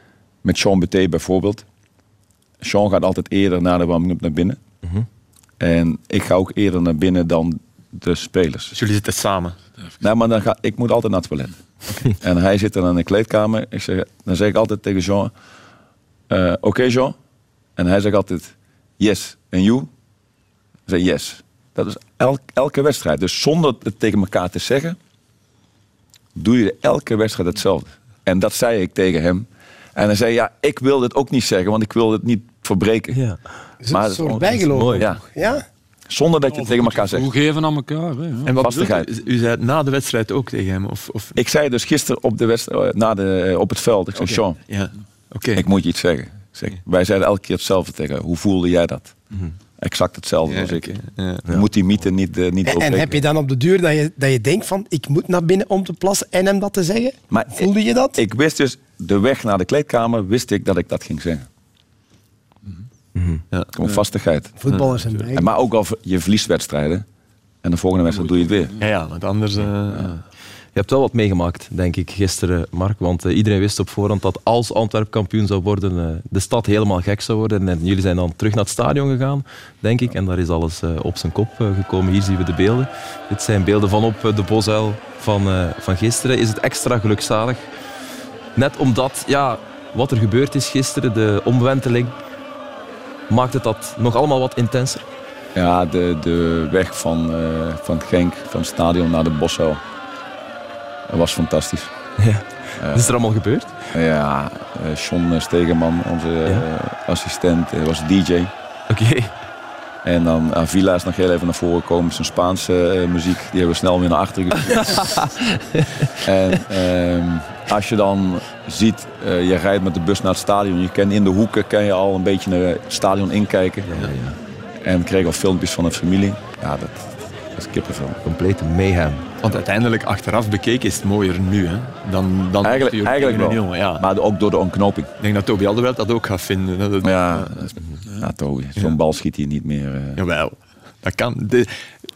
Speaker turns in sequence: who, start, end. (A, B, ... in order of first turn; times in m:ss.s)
0:00.4-0:01.7 A
0:02.6-0:04.6 A
0:05.6-0:08.8 A
0:08.7-0:09.6 B
0:10.0-0:11.5 A
0:12.0-0:15.3 A
0:16.3-0:17.2 A
0:17.8-0:19.9 A
0:20.9-0:25.0 A
0:26.4-0:33.2 A
0:33.1-0:33.4 C
0:33.8-0:35.6 D
0:33.9-0:35.2 A
0:34.7-0:35.1 C
0:36.1-0:37.3 A
0:36.5-0:38.5 E
0:38.4-0:41.4 B
0:38.6-0:39.1 A
0:41.4-0:44.6 A
0:44.2-0:45.6 B
0:45.6-0:49.2 A
0:49.8-0:53.2 A
0:50.5-0:51.5 B
0:52.6-0:58.2 D
0:57.3-1:01.5 A
1:03.2-1:03.4 C
1:03.8-1:04.5 A
1:04.6-1:05.5 D
1:05.3-1:07.1 A
1:07.6-1:08.7 A
1:08.2-1:08.8 E
1:08.8-1:10.2 B
1:10.8-1:27.6 C
1:28.6-1:32.2 C
1:33.3-1:35.0 C
1:35.6-1:39.8 A
1:41.1-1:41.9 A
1:42.2-1:43.8 C
1:42.8-1:43.1 A
1:43.9-1:48.5 A
1:48.9-1:49.3 C
1:50.0-1:55.1 A
1:54.9-1:55.9 C
1:56.2-2:04.0 A
2:03.9-2:04.4 C
2:04.8-2:08.2 A
2:08.2-2:09.3 C
2:09.4-2:14.0 B
2:12.6-2:15.1 A
2:15.2-2:17.7 B
2:17.0-2:20.2 A
2:20.2-2:21.7 B